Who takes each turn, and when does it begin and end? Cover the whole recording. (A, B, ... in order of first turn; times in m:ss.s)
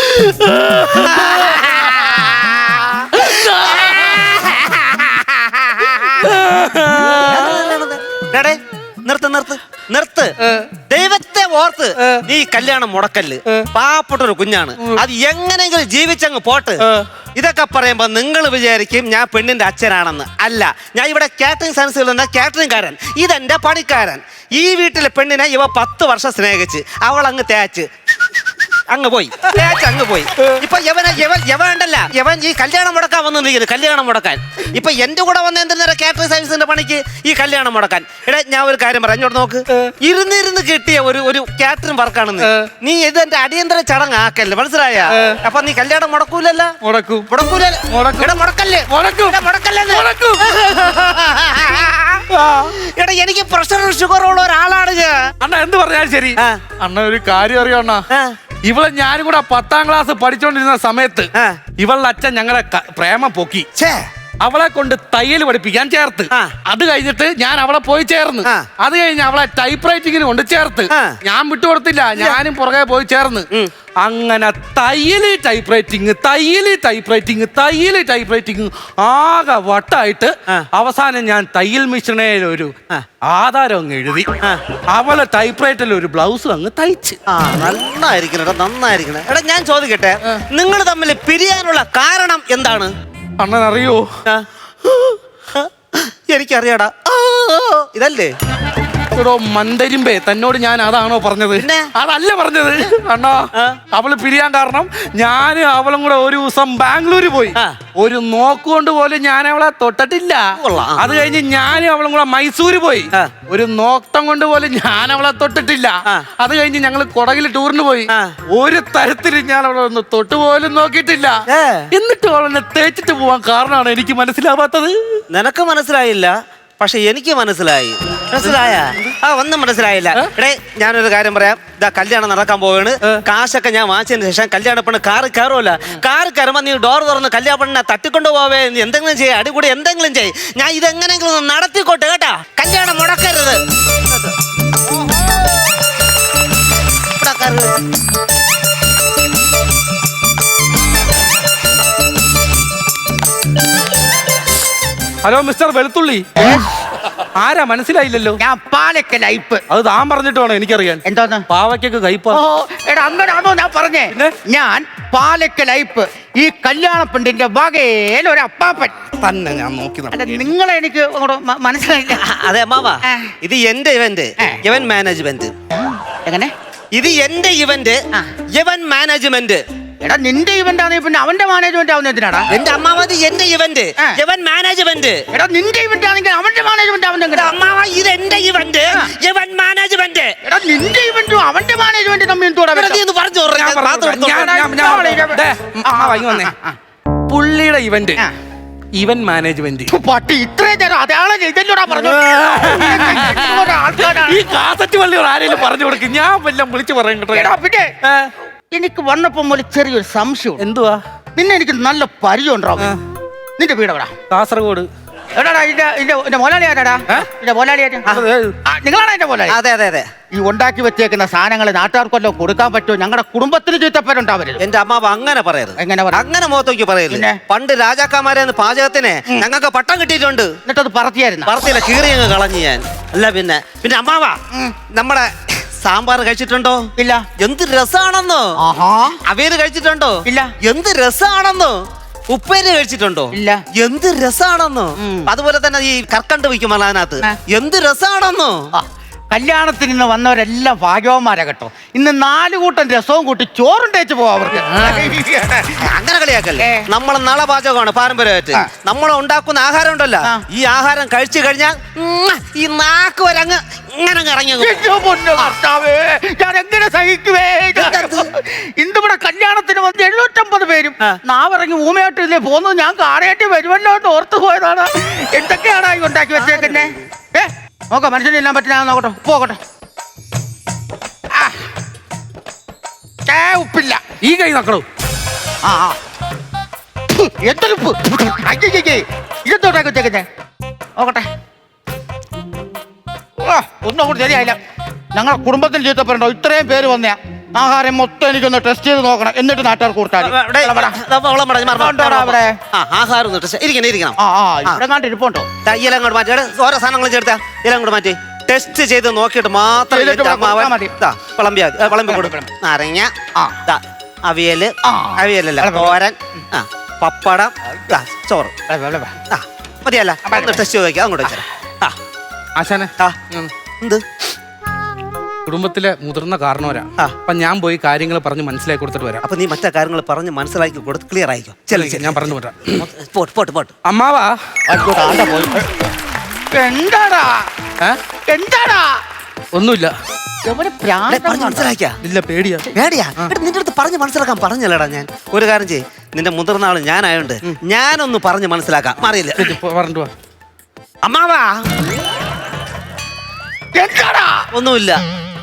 0:00.1-0:01.9 A
0:01.2-0:01.8 B
0:03.2-0:04.4 A
0:04.0-0:04.5 B
0:05.8-0:06.1 B
0:06.2-0:07.7 A
0:07.0-0:10.3 B
0:10.9-0:16.8 B
0:16.8-0:17.1 A
0:17.4-0:28.4 B
0:28.9-0:46.7 B
0:42.4-0:42.7 A
0:45.1-0:45.4 A
0:46.8-0:47.3 A
0:47.3-0:52.2 B
0:47.9-0:48.4 A
0:48.9-0:50.8 A
0:52.3-0:52.7 A
0:52.7-0:55.2 B
0:55.4-0:58.0 A
0:56.4-0:56.6 B
0:58.1-0:58.4 B
0:58.6-1:03.7 A
1:01.3-1:01.6 B
1:03.8-1:04.0 B
1:04.4-1:13.5 A
1:10.9-1:11.2 B
1:14.0-1:22.7 A
1:23.2-1:24.3 A
1:24.9-1:27.2 A
1:27.3-1:32.9 B
1:33.4-1:34.0 A
1:34.2-1:38.3 B
1:39.2-1:50.4 A
1:41.5-1:41.8 B
1:43.5-1:43.8 B
1:50.6-1:51.0 B
1:51.0-2:01.4 A
1:58.1-1:58.3 B
2:01.5-2:01.9 B
2:01.9-2:05.2 A
2:05.3-2:23.6 B
2:27.2-2:27.8 B
2:35.2-2:36.3 A
2:36.4-2:36.7 C
2:37.4-2:38.4 A
2:38.4-2:39.6 C
2:39.7-2:42.4 A
2:41.0-2:41.4 C
2:42.3-2:48.9 C
2:49.2-2:50.4 A
2:50.1-2:52.2 C
2:52.2-2:55.5 B
2:53.0-2:53.3 C
2:56.2-2:56.5 C
2:56.9-2:58.0 B
2:58.5-2:59.6 B
3:00.0-3:02.5 C
3:02.5-3:05.2 B
3:05.3-3:07.5 C
3:07.3-3:10.3 B
3:10.4-3:13.0 C
3:12.7-3:14.6 B
3:13.5-3:16.5 A
3:14.2-3:16.8 C
3:17.3-3:18.2 A
3:18.9-3:19.9 A
3:19.9-3:24.5 C
3:21.9-3:27.5 A
3:27.3-3:27.9 C
3:28.0-3:28.3 A
3:28.7-3:30.6 C
3:30.6-3:31.0 A
3:31.4-3:32.9 C
3:33.6-3:34.1 C
3:34.3-3:34.9 A
3:35.4-3:38.1 C
3:38.1-3:38.5 A
3:38.6-3:39.6 C
3:39.5-3:40.1 B
3:40.3-3:44.6 C
3:44.6-3:50.6 B
3:45.8-3:46.2 C
3:47.1-3:47.4 C
3:50.6-3:51.5 C
3:51.4-3:54.4 B
3:54.9-3:56.8 B
3:57.0-3:57.2 C
3:57.4-3:58.5 B
3:58.6-3:59.2 C
3:59.3-4:01.8 B
4:00.2-4:00.5 C
4:02.3-4:08.6 B
4:03.3-4:03.6 C
4:05.0-4:05.3 C
4:08.7-4:15.8 C
4:14.7-4:15.1 A
4:15.8-4:24.8 B
4:16.6-4:16.8 C
4:24.6-4:39.6 C
4:27.7-4:28.2 B
4:36.4-4:36.9 B
4:43.2-4:44.0 C
4:44.2-4:44.8 A
4:45.6-4:46.0 C
4:47.1-4:50.2 C
4:51.0-4:51.2 C
4:53.4-4:54.6 C
4:55.1-5:01.0 C
5:00.2-5:04.8 B
5:01.8-5:02.6 C
5:04.2-5:05.5 C
5:05.6-5:13.1 B
5:09.9-5:10.9 C
5:12.0-5:12.4 C
5:13.6-5:18.5 B
5:14.8-5:16.0 C
5:18.7-5:19.2 C
5:19.3-5:22.0 B
5:20.2-5:20.6 C
5:22.6-5:23.5 A
5:25.4-5:29.2 A
5:29.2-5:33.7 B
5:31.7-5:32.8 A
5:33.8-5:34.4 A
5:34.7-5:35.7 C
5:36.5-5:37.4 C
5:38.3-5:38.9 C
5:39.5-5:39.9 A
5:40.4-5:41.7 C
5:41.1-5:42.0 B
5:42.0-5:43.3 A
5:42.7-5:49.5 B
5:49.4-5:50.1 A
5:51.0-5:51.6 B
5:53.7-5:54.4 C
5:54.5-5:55.0 B